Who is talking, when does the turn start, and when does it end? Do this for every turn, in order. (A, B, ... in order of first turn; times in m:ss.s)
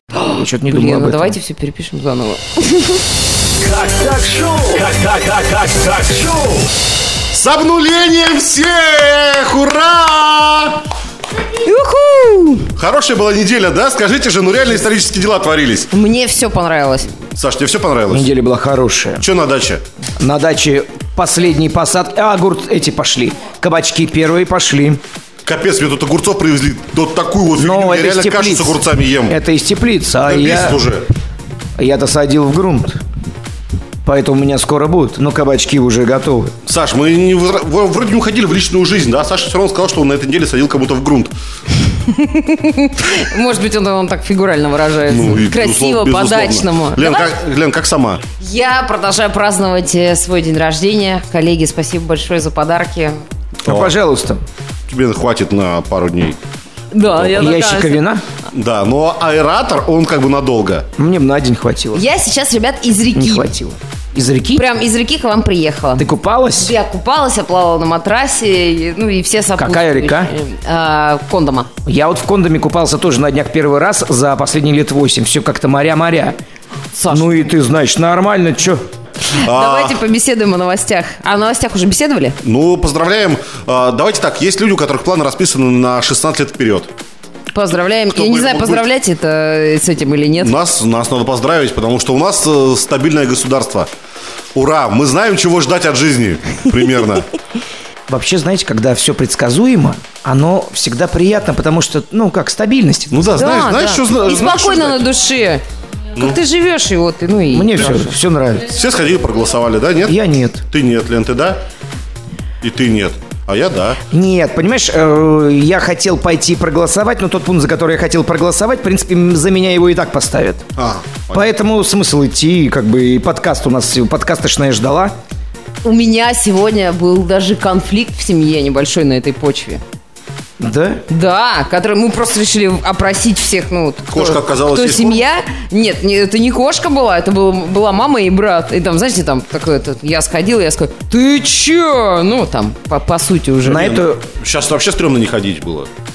0:00.2-0:03.0 A
0:00.2-0:01.4 B
0:03.6-0:06.7 C
0:07.3-0:10.8 D
0:11.6-0:12.7 A
0:12.7-0:15.9 D
0:15.9-0:17.1 A
0:17.3-0:18.3 D
0:18.1-0:19.2 B
0:19.2-0:19.8 D
0:20.2-0:25.0 B
0:25.4-0:29.4 D
0:27.6-0:30.8 B
0:30.2-0:31.0 D
0:31.8-0:33.0 B
0:34.0-0:36.5 B
0:36.6-0:41.3 D
0:42.1-0:47.3 A
0:45.1-0:48.2 D
0:48.4-0:53.2 A
0:53.6-0:54.4 B
0:53.6-0:53.9 D
0:54.9-0:56.4 D
0:56.9-0:58.0 A
0:57.2-0:58.2 B
0:58.5-1:00.9 D
1:01.0-1:02.0 B
1:01.9-1:03.5 A
1:03.1-1:04.6 B
1:04.5-1:11.7 A
1:06.0-1:06.7 B
1:09.6-1:10.3 B
1:11.8-1:16.4 B
1:16.9-1:17.4 A
1:17.1-1:18.8 B
1:19.2-1:22.4 A
1:19.3-1:20.0 D
1:22.4-1:26.9 D
1:27.5-1:30.6 A
1:28.1-1:28.8 D
1:30.4-1:33.9 D
1:34.5-1:37.3 D
1:38.1-1:43.4 B
1:43.1-1:45.1 D
1:43.4-1:45.6 A
1:46.2-1:47.8 A
1:47.5-1:48.7 B
1:48.6-1:51.6 D
1:50.0-1:50.6 B
1:52.6-1:54.0 D
1:54.1-2:00.6 B
2:00.8-2:01.5 D
2:01.3-2:05.2 B
2:05.8-2:09.8 A
2:10.6-2:11.0 B
2:11.1-2:23.9 A
2:14.1-2:15.2 D
2:23.6-2:24.2 B
2:23.7-2:25.9 D